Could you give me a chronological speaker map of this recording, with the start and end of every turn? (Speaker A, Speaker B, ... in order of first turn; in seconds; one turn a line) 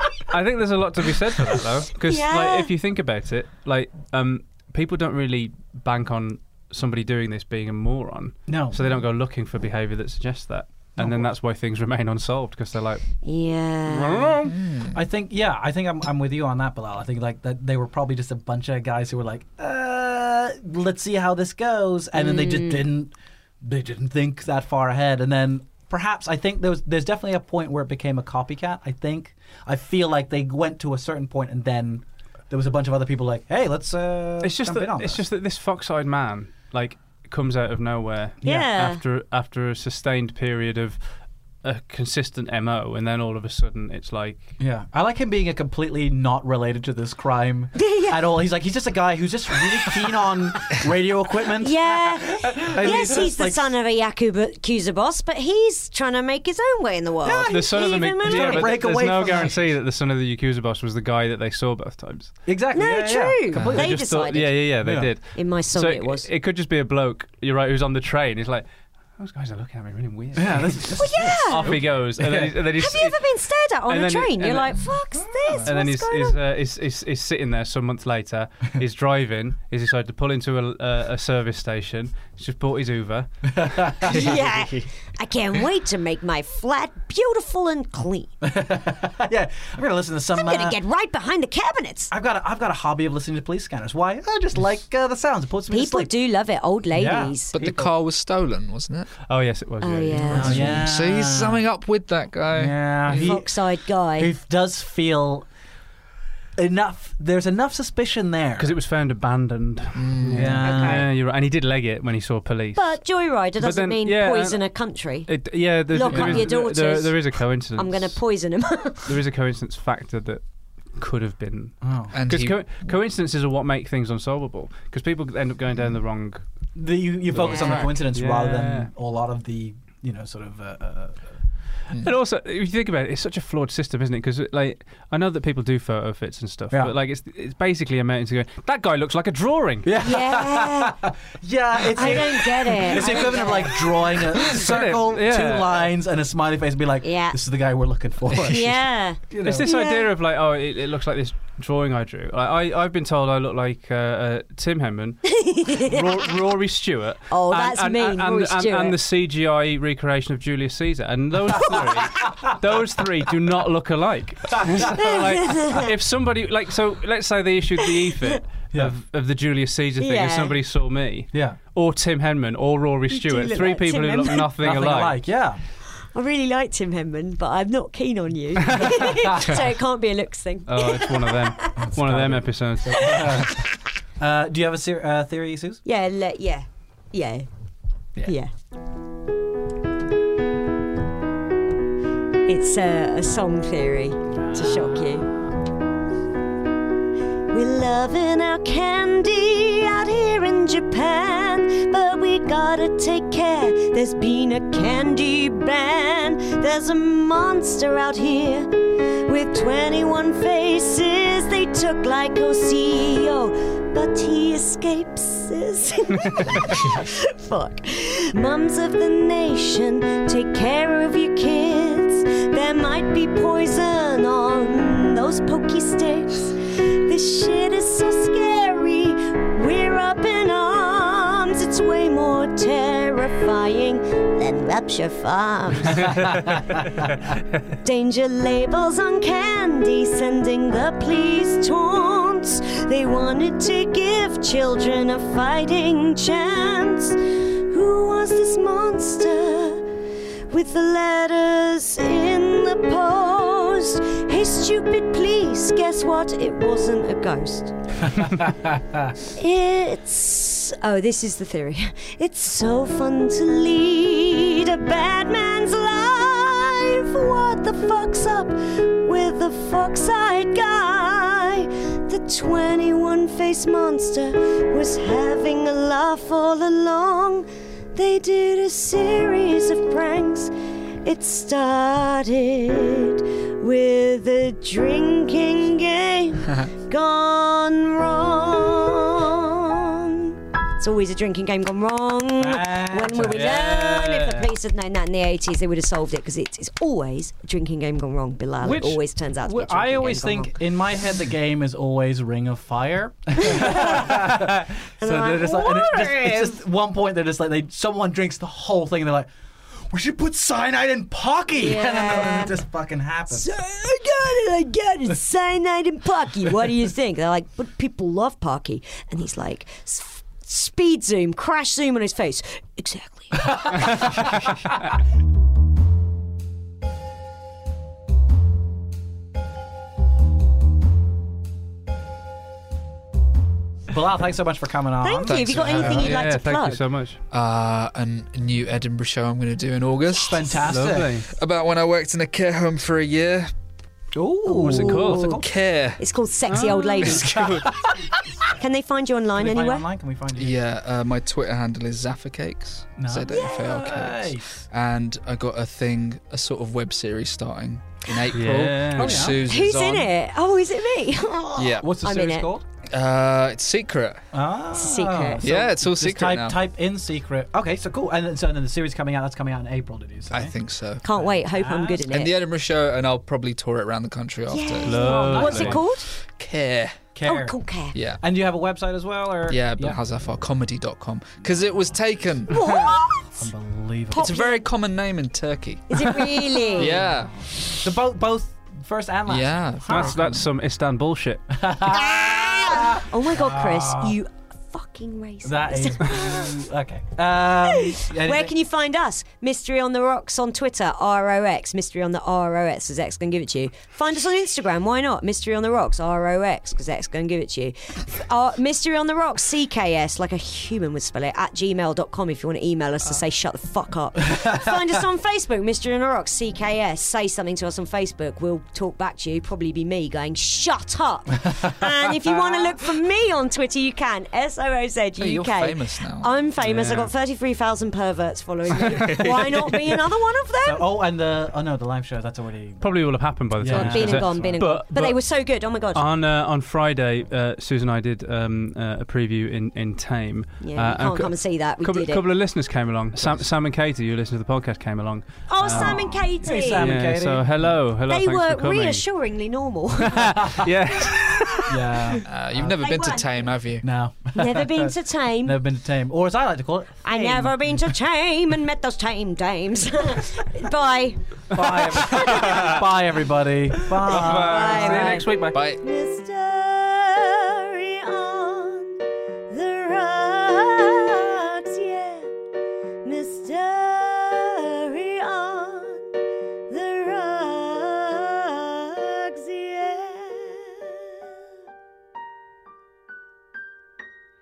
Speaker A: 0.3-13.0
Speaker B: 2.1-2.7
Speaker C: 8.5-8.8
Speaker C: 11.0-11.3
Speaker B: 13.2-14.3
Speaker A: 13.8-14.6
Speaker D: 14.5-15.0
Speaker C: 14.9-35.2
Speaker B: 22.1-22.8
Speaker A: 34.4-41.0
Speaker B: 38.4-39.0
Speaker A: 41.6-44.6
Speaker C: 44.6-53.6
Speaker B: 47.7-48.4
Speaker B: 51.6-58.8
Speaker C: 57.2-59.8
Speaker A: 57.5-62.4
Speaker C: 62.5-63.9
Speaker B: 62.7-64.7
Speaker D: 63.5-63.8
Speaker A: 63.7-68.7
Speaker C: 64.8-65.1
Speaker B: 65.3-66.3
Speaker A: 69.2-73.2
Speaker C: 70.3-72.5
Speaker B: 71.0-71.7
Speaker B: 72.8-76.4
Speaker A: 73.9-75.0
Speaker C: 75.2-75.7
Speaker A: 75.6-84.2
Speaker C: 83.5-84.9
Speaker B: 84.1-88.3
Speaker C: 88.4-90.8
Speaker B: 90.3-92.1
Speaker C: 92.1-96.1
Speaker B: 95.7-97.5
Speaker C: 96.9-97.9
Speaker D: 97.5-99.1
Speaker A: 99.3-100.8
Speaker B: 99.8-100.8
Speaker D: 100.2-103.4
Speaker C: 100.3-101.6
Speaker C: 102.5-103.6
Speaker B: 103.1-104.3
Speaker C: 104.2-105.5
Speaker C: 106.6-108.7
Speaker A: 108.6-113.0
Speaker D: 109.9-110.7
Speaker C: 110.3-111.0
Speaker B: 110.6-111.0
Speaker B: 112.8-119.1
Speaker A: 113.6-114.6
Speaker A: 115.2-118.2
Speaker D: 116.1-116.5
Speaker A: 119.0-126.4
Speaker C: 121.8-122.2
Speaker D: 122.1-122.6
Speaker C: 126.7-131.2
Speaker A: 127.3-128.9
Speaker B: 127.4-127.7
Speaker A: 132.0-139.9
Speaker C: 139.8-149.7
Speaker B: 140.0-140.9
Speaker B: 141.9-144.6
Speaker A: 143.0-143.3
Speaker A: 144.5-145.9
Speaker B: 147.0-147.4
Speaker B: 148.4-150.1
Speaker A: 149.4-175.2
Speaker B: 155.3-156.0
Speaker B: 157.3-159.0
Speaker C: 161.6-162.5
Speaker B: 165.0-165.9
Speaker B: 170.0-170.6
Speaker B: 173.1-174.5
Speaker C: 174.6-175.6
Speaker B: 175.9-181.9
Speaker C: 178.7-179.6
Speaker A: 180.7-183.4
Speaker C: 181.8-183.6
Speaker B: 183.0-183.5
Speaker C: 184.2-185.8
Speaker B: 185.8-187.5
Speaker B: 188.2-188.5
Speaker B: 192.4-195.3
Speaker C: 194.4-195.1
Speaker B: 197.5-236.2
Speaker A: 235.8-236.6
Speaker C: 236.1-236.6
Speaker B: 237.8-249.8
Speaker B: 250.5-258.2
Speaker C: 258.2-259.1
Speaker B: 259.3-280.5
Speaker B: 281.0-300.6
Speaker C: 292.4-294.5
Speaker C: 298.6-309.3
Speaker B: 303.5-304.0
Speaker B: 305.0-306.6
Speaker C: 309.9-313.5
Speaker B: 311.6-312.6
Speaker B: 313.3-324.0
Speaker C: 323.4-324.3
Speaker C: 333.9-336.0
Speaker B: 335.0-336.8
Speaker D: 335.2-336.3
Speaker A: 335.8-337.2
Speaker D: 337.3-343.5
Speaker C: 340.2-341.2
Speaker A: 340.7-341.3
Speaker C: 344.1-345.5
Speaker B: 344.5-345.1
Speaker A: 344.6-345.4
Speaker D: 345.1-346.0
Speaker B: 346.0-347.3
Speaker A: 346.5-347.8
Speaker D: 346.6-347.7
Speaker B: 348.6-349.9
Speaker C: 349.4-350.6
Speaker D: 350.3-360.1
Speaker C: 353.0-354.6
Speaker B: 353.3-353.6
Speaker A: 358.3-359.3
Speaker C: 358.9-359.4
Speaker B: 359.4-362.5
Speaker D: 361.6-362.0
Speaker C: 361.7-362.6
Speaker D: 362.9-364.2
Speaker C: 364.3-370.5
Speaker B: 364.7-365.4
Speaker D: 365.4-366.6
Speaker D: 370.3-371.0
Speaker B: 371.0-372.4
Speaker C: 371.1-372.0
Speaker D: 372.0-377.0
Speaker B: 374.5-376.1
Speaker A: 374.8-375.8
Speaker C: 375.3-375.8
Speaker C: 377.1-377.6
Speaker B: 377.2-378.0
Speaker D: 377.9-378.2
Speaker C: 378.2-380.0
Speaker D: 379.5-383.0
Speaker B: 382.5-383.4
Speaker C: 383.4-384.4
Speaker B: 384.1-384.6
Speaker D: 384.1-387.4
Speaker B: 385.9-387.0
Speaker C: 386.6-390.1
Speaker D: 389.3-390.4
Speaker A: 389.9-391.5
Speaker C: 391.5-394.2
Speaker B: 391.9-396.5
Speaker C: 395.4-398.5
Speaker B: 397.7-430.9
Speaker C: 414.3-414.6
Speaker D: 425.2-426.3
Speaker A: 426.6-427.1
Speaker A: 428.9-429.5
Speaker C: 430.6-432.9
Speaker A: 432.8-435.2
Speaker C: 433.6-434.6
Speaker B: 433.7-436.0
Speaker A: 435.9-449.0
Speaker B: 440.6-442.2
Speaker B: 445.5-446.9
Speaker C: 445.7-447.7
Speaker B: 448.1-452.0
Speaker A: 450.0-451.6
Speaker C: 450.4-450.6
Speaker C: 451.7-452.8
Speaker D: 452.2-453.9
Speaker B: 452.7-453.5
Speaker C: 453.8-454.9
Speaker B: 454.3-455.6
Speaker C: 455.4-457.5
Speaker B: 457.0-461.2
Speaker C: 461.5-465.2
Speaker A: 461.6-462.8
Speaker B: 462.0-462.7
Speaker A: 463.9-465.6
Speaker B: 464.1-468.9
Speaker D: 465.5-465.8
Speaker B: 469.5-472.3
Speaker B: 473.0-476.0
Speaker B: 476.7-480.9